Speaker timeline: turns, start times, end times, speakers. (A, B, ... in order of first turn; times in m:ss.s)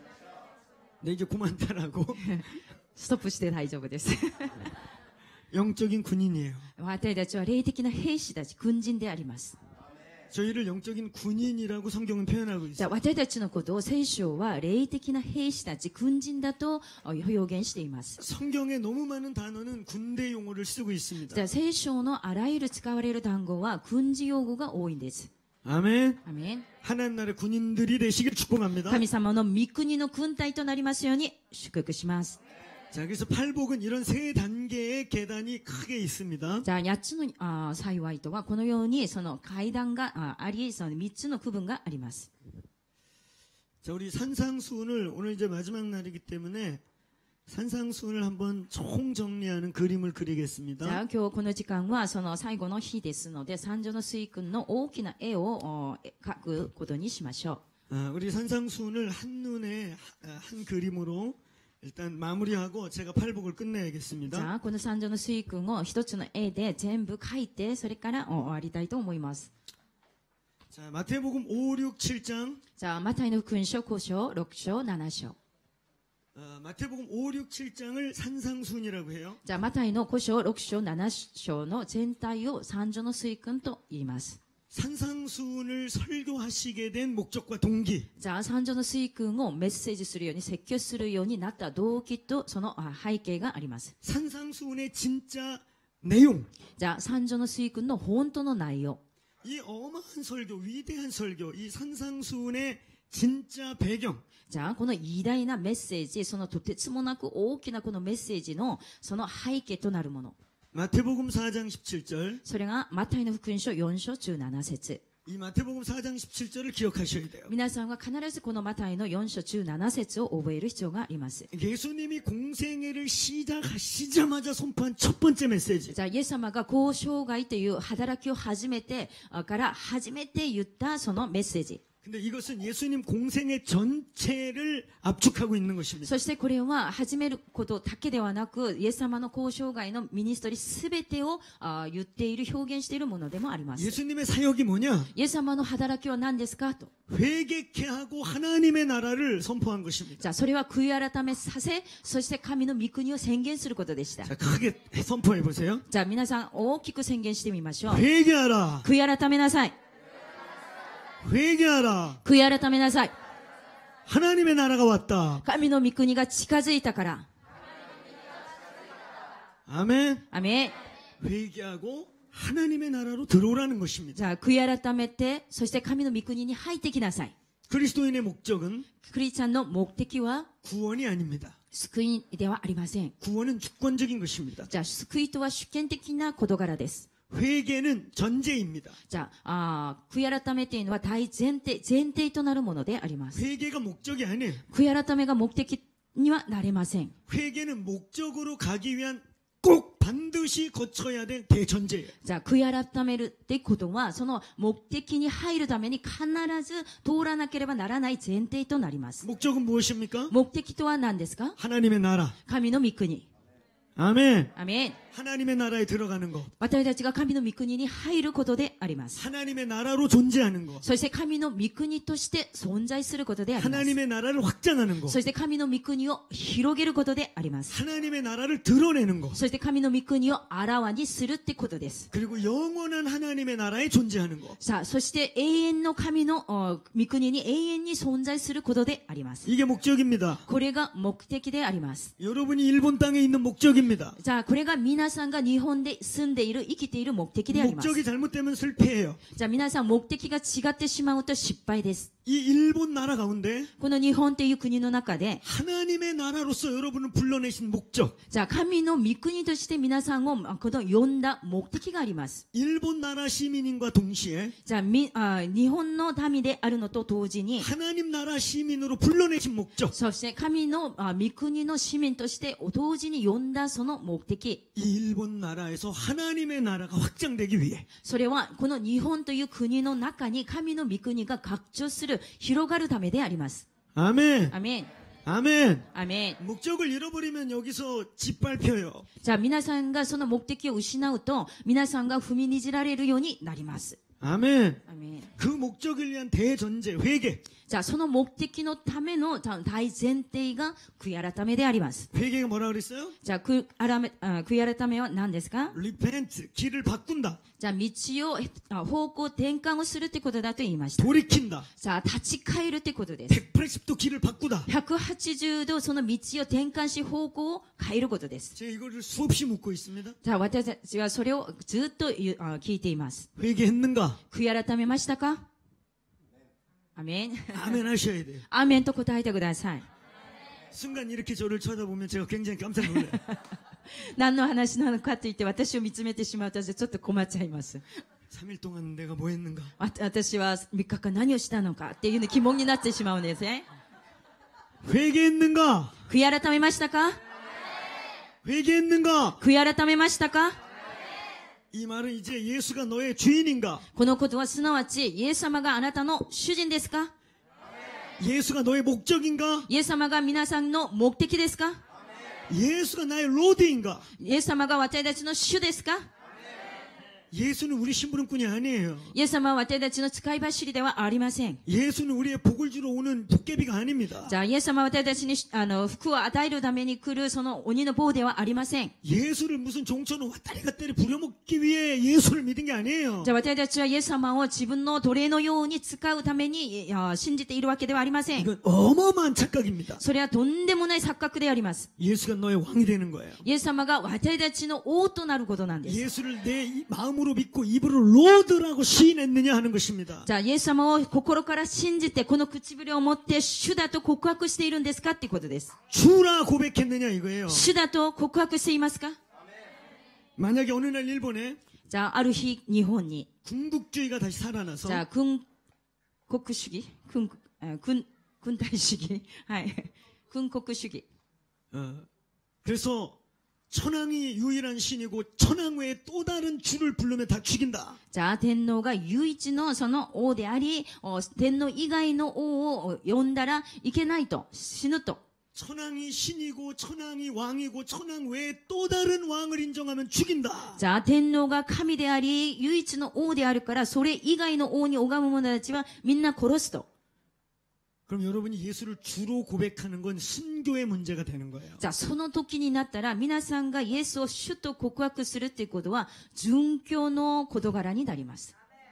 0:01.0-0:02.3 A
0:02.2-0:04.7 B
0:05.5-0:06.7 A
0:06.8-0:09.6 B
0:10.3-0:12.9 A
0:12.8-0:18.2 B
0:18.2-0:21.4 A
0:21.3-0:25.3 B
0:25.6-0:26.2 A
0:26.2-0:26.6 B
0:26.8-0:29.0 A
0:28.9-0:32.4 B
0:32.9-0:36.6 A
0:36.6-0:42.3 B
0:43.8-0:46.8 A
0:47.5-0:51.0 A
0:50.8-0:57.6 B
0:57.9-1:04.5 A
1:04.3-1:09.5 B
1:10.7-1:12.6 A
1:12.8-1:15.4 B
1:16.3-1:19.4 A
1:19.4-1:24.4 B
1:24.7-1:28.1 A
1:28.2-1:33.9 B
1:34.0-1:36.5 A
1:36.8-1:39.0 B
1:39.4-1:44.2 A
1:44.5-1:50.4 B
1:50.7-1:52.4 A
1:52.4-1:55.0 B
1:55.2-1:57.5 A
1:57.5-2:01.5 B
2:01.5-2:06.0 A
2:05.9-2:11.8 B
2:12.0-2:16.2 A
2:16.0-2:24.0 B
2:23.8-2:25.1 A
2:25.1-2:26.9 B
2:27.1-2:30.3 A
2:30.2-2:34.3 B
2:34.2-2:35.8 A
2:35.9-2:38.0 B
2:37.9-2:38.9 A
2:38.8-2:39.7 B
2:41.2-2:42.2 A
2:42.2-2:43.1 B
2:44.0-2:45.4 A
2:45.4-2:47.3 B
2:49.7-2:50.2 A
2:50.3-2:50.7 B
2:51.2-2:54.2 A
2:54.1-2:57.3 B
2:57.7-2:58.9 A
2:59.0-3:00.5 B
3:00.6-3:01.6 A
3:01.7-3:03.1 B
3:03.2-3:04.7 A
3:04.7-3:07.1 B
3:07.3-3:09.0 A
3:09.1-3:13.4 B
3:13.3-3:14.6 A
3:14.7-3:17.1 B
3:17.3-3:22.1 A
3:22.2-3:29.2 B
3:29.2-3:30.3 A
3:30.3-3:31.6 B
3:31.6-3:32.4 A
3:32.4-3:33.3 B
3:34.0-3:34.5 A
3:34.6-3:35.0 B
3:35.1-3:36.5 A
3:36.6-3:39.2 B
3:39.2-3:40.8 A
3:40.8-3:44.0 B
3:43.6-3:45.2 A
3:45.0-3:47.7 B
3:47.7-3:49.4 A
3:49.3-3:52.1 B
3:52.1-3:54.6 A
3:54.6-3:59.5 B
3:59.4-4:00.4 A
4:00.4-4:02.1 B
4:02.2-4:04.2 A
4:04.2-4:08.0 B
4:07.5-4:09.2 A
4:09.3-4:12.1 B
4:12.2-4:13.7 A
4:13.8-4:15.4 B
4:15.4-4:18.1 A
4:18.3-4:22.4 B
4:22.5-4:24.5 A
4:24.6-4:27.7 B
4:27.6-4:29.9 A
4:29.9-4:34.6 B
4:34.8-4:37.8 A
4:38.0-4:43.6 B
4:43.9-4:44.5 A
4:44.5-4:44.9 B
4:45.2-4:49.1 A
4:45.9-4:46.4 B
4:49.2-4:54.0 B
4:54.2-4:54.8 A
4:54.9-4:55.3 B
4:55.4-4:57.4 A
4:57.7-5:02.1 B
5:02.1-5:03.2 A
5:03.2-5:05.8 B
5:05.7-5:07.4 A
5:07.6-5:11.1 B
5:11.0-5:11.7 A
5:11.8-5:13.4 B
5:13.3-5:14.7 A
5:14.7-5:18.5 B
5:18.5-5:20.2 A
5:20.2-5:23.3 B
5:23.4-5:24.2 A
5:24.3-5:25.5 B
5:27.0-5:27.8 B
5:27.5-5:28.4 A
5:28.5-5:29.8 B
5:30.7-5:33.2 A
5:33.0-5:37.8 B
5:38.3-5:39.7 A
5:39.8-5:43.7 B
5:44.8-5:45.9 A
5:46.1-5:47.2 B
5:48.4-5:49.4 A
5:49.4-5:50.6 B
5:51.7-5:53.8 A
5:53.9-5:57.1 B
5:58.2-5:59.7 A
5:59.7-6:01.8 B
6:02.5-6:04.1 A
6:04.2-6:06.1 B
6:07.3-6:09.1 A
6:09.1-6:11.6 B
6:11.6-6:14.3 A
6:14.2-6:18.9 B
6:19.0-6:23.3 A
6:23.2-6:28.5 B
6:28.4-6:30.0 A
6:30.0-6:31.9 B
6:32.0-6:33.4 A
6:33.4-6:36.0 B
6:35.8-6:40.3 A
6:40.2-6:45.7 B
6:45.9-6:47.7 A
6:47.5-6:49.2 B
6:50.4-6:51.6 A
6:51.9-6:53.3 B
6:53.4-6:55.0 A
6:54.8-6:55.4 B
6:56.3-7:01.0 B
7:01.7-7:02.1 A
7:02.6-7:03.2 A
7:03.7-7:08.0 A
7:08.1-7:15.2 B
7:15.5-7:20.8 A
7:20.8-7:26.9 B
7:28.1-7:31.8 A
7:31.8-7:38.5 B